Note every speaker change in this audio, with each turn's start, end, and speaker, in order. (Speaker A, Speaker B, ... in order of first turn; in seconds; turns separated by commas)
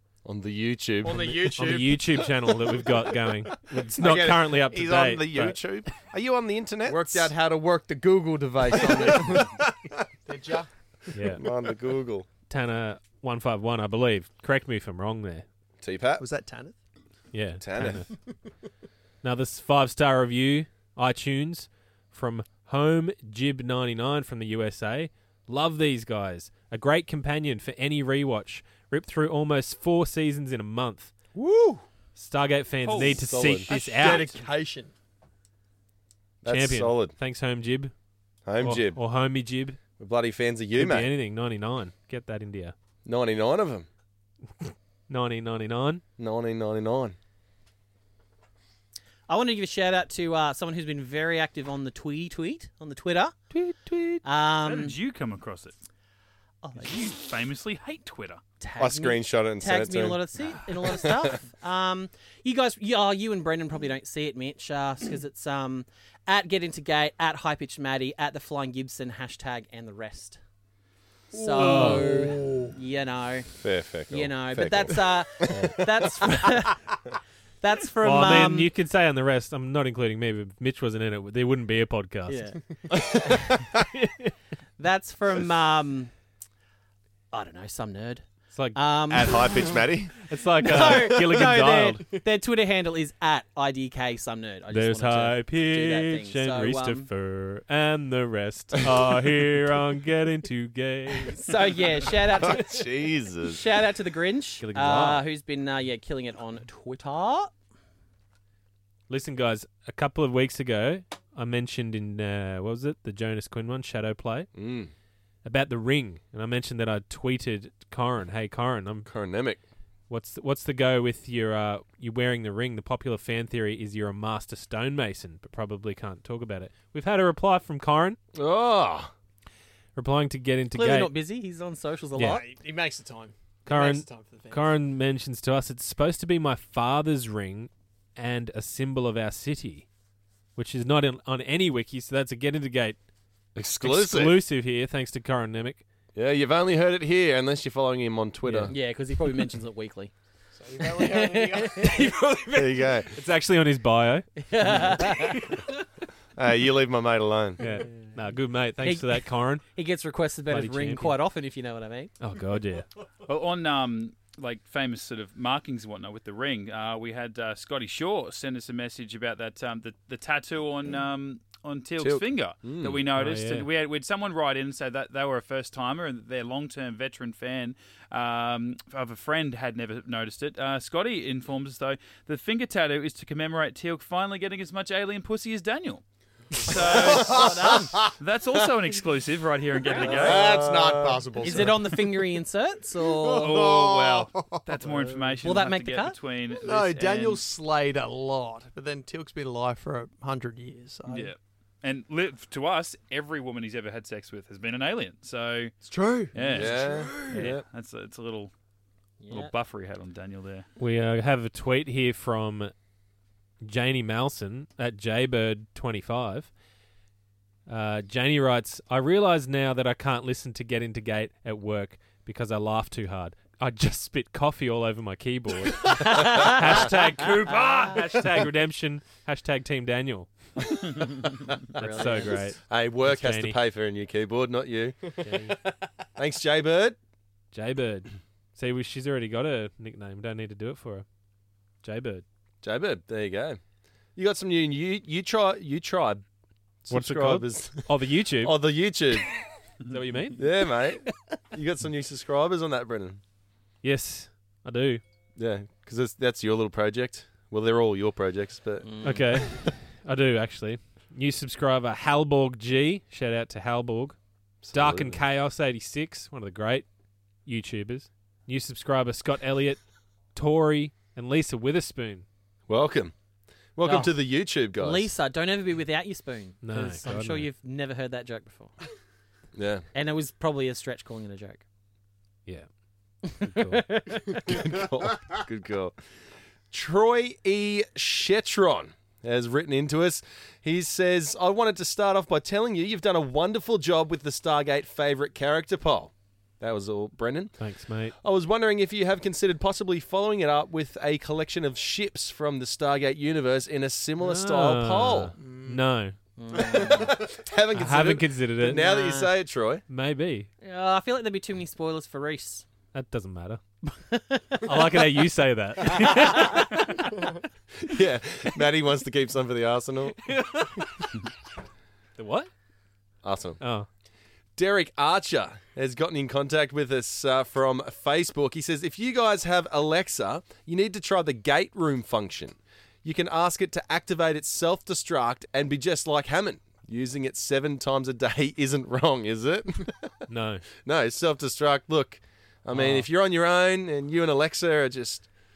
Speaker A: 0.2-1.8, Speaker B: 1.0-3.0, Speaker C: 1.5-5.6, Speaker A: 4.0-7.3, Speaker B: 6.8-9.7, Speaker A: 8.8-9.6, Speaker B: 10.3-10.7, Speaker C: 11.1-11.4, Speaker A: 11.3-12.3, Speaker C: 12.5-15.4, Speaker A: 15.8-16.2, Speaker B: 16.2-16.8, Speaker C: 17.3-18.1, Speaker A: 17.6-18.1, Speaker C: 19.2-31.1, Speaker B: 31.3-31.8, Speaker C: 32.2-34.4, Speaker D: 32.8-33.4, Speaker A: 33.0-33.7, Speaker B: 33.7-34.9, Speaker D: 34.0-34.4, Speaker A: 36.4-37.1, Speaker C: 36.5-37.9, Speaker A: 38.5-39.0, Speaker C: 38.6-39.8, Speaker A: 40.0-41.1, Speaker C: 40.7-42.7, Speaker A: 43.0-43.9, Speaker C: 44.6-46.0, Speaker A: 46.2-47.2, Speaker E: 49.3-53.4, Speaker C: 53.5-54.2, Speaker E: 54.2-55.0, Speaker D: 54.6-55.8, Speaker E: 56.6-57.1, Speaker D: 56.8-58.4, Speaker E: 58.6-70.4, Speaker A: 58.8-60.2, Speaker A: 60.9-61.3, Speaker E: 71.3-73.5, Speaker B: 71.3-72.7, Speaker C: 71.6-72.3, Speaker A: 73.6-75.7, Speaker E: 74.1-76.8, Speaker C: 75.5-75.9, Speaker E: 77.6-78.7, Speaker C: 78.0-82.4, Speaker E: 82.3-83.4, Speaker C: 84.0-84.3, Speaker E: 84.8-86.1, Speaker E: 87.3-89.8, Speaker C: 88.5-89.1, Speaker A: 89.1-90.2, Speaker C: 90.2-92.1, Speaker E: 90.6-97.1, Speaker A: 90.8-91.3, Speaker C: 94.7-101.5, Speaker E: 101.2-107.5, Speaker A: 102.3-103.6, Speaker C: 104.6-105.2, Speaker C: 109.1-114.5, Speaker A: 114.5-114.9, Speaker C: 115.4-119.1, Speaker A: 119.1-119.6, Speaker C: 120.1-128.2, Speaker A: 128.3-129.1, Speaker C: 129.9-131.1, Speaker E: 130.7-132.4, Speaker B: 132.3-134.7, Speaker C: 133.7-139.9, Speaker C: 140.6-143.0, Speaker A: 143.6-144.4, Speaker C: 143.8-145.8, Speaker A: 146.2-148.7, Speaker C: 148.4-148.8, Speaker E: 148.7-150.1, Speaker B: 150.6-152.2, Speaker E: 150.8-152.8, Speaker A: 152.5-153.1, Speaker C: 153.1-155.3, Speaker E: 154.4-155.6, Speaker A: 156.4-157.6, Speaker C: 157.6-159.6, Speaker E: 158.8-162.1, Speaker C: 160.5-161.2, Speaker C: 162.2-162.9, Speaker D: 163.2-186.0, Speaker A: 172.0-173.0, Speaker C: 173.1-173.7, Speaker D: 186.6-190.6, Speaker E: 186.7-188.0, Speaker B: 186.7-188.1, Speaker B: 189.9-192.2, Speaker A: 190.0-191.2, Speaker E: 191.4-193.6, Speaker B: 193.1-195.1, Speaker D: 193.3-197.4, Speaker E: 195.4-196.2, Speaker B: 196.6-201.3, Speaker D: 201.1-205.8, Speaker B: 205.8-207.5, Speaker D: 206.3-208.5, Speaker A: 206.5-207.6, Speaker E: 209.2-209.5, Speaker D: 209.3-210.7, Speaker C: 210.8-212.7, Speaker C: 213.6-216.5, Speaker C: 217.7-230.3, Speaker E: 226.0-226.9, Speaker D: 227.6-227.9, Speaker E: 231.7-232.5, Speaker C: 231.8-233.6, Speaker A: 232.1-235.1, Speaker C: 235.2-235.6, Speaker A: 236.2-237.0, Speaker C: 237.5-241.1, Speaker C: 241.8-242.2, Speaker A: 242.6-243.6, Speaker A: 244.2-246.2, Speaker A: 246.8-249.3, Speaker C: 246.9-248.6, Speaker C: 249.9-250.5, Speaker A: 250.4-253.2, Speaker C: 253.8-255.0, Speaker A: 255.4-258.9, Speaker E: 258.8-259.4, Speaker C: 259.0-264.2, Speaker A: 264.6-265.2, Speaker C: 264.7-266.9, Speaker C: 267.4-272.2, Speaker A: 272.7-273.1, Speaker A: 273.8-275.1, Speaker E: 273.8-274.2, Speaker E: 274.7-278.8, Speaker C: 276.6-277.5, Speaker A: 279.5-279.9, Speaker E: 279.9-281.6, Speaker E: 283.2-284.5, Speaker C: 283.3-284.2, Speaker A: 284.4-285.9, Speaker A: 286.7-297.6, Speaker C: 297.6-298.1, Speaker A: 298.2-305.4, Speaker C: 304.2-306.2, Speaker B: 305.4-305.9, Speaker E: 306.4-307.1, Speaker B: 306.6-306.9, Speaker A: 306.7-309.8, Speaker C: 307.7-308.8, Speaker E: 308.6-309.3, Speaker C: 309.9-310.5, Speaker E: 310.6-312.7, Speaker C: 312.9-313.6, Speaker E: 313.9-314.8, Speaker C: 314.6-317.1, Speaker E: 316.0-316.7, Speaker A: 317.8-320.3, Speaker C: 320.2-321.1, Speaker C: 322.2-322.5, Speaker A: 323.2-323.6, Speaker C: 323.6-323.9, Speaker A: 324.6-340.1, Speaker C: 340.3-340.7, Speaker A: 340.8-345.3, Speaker C: 342.7-343.1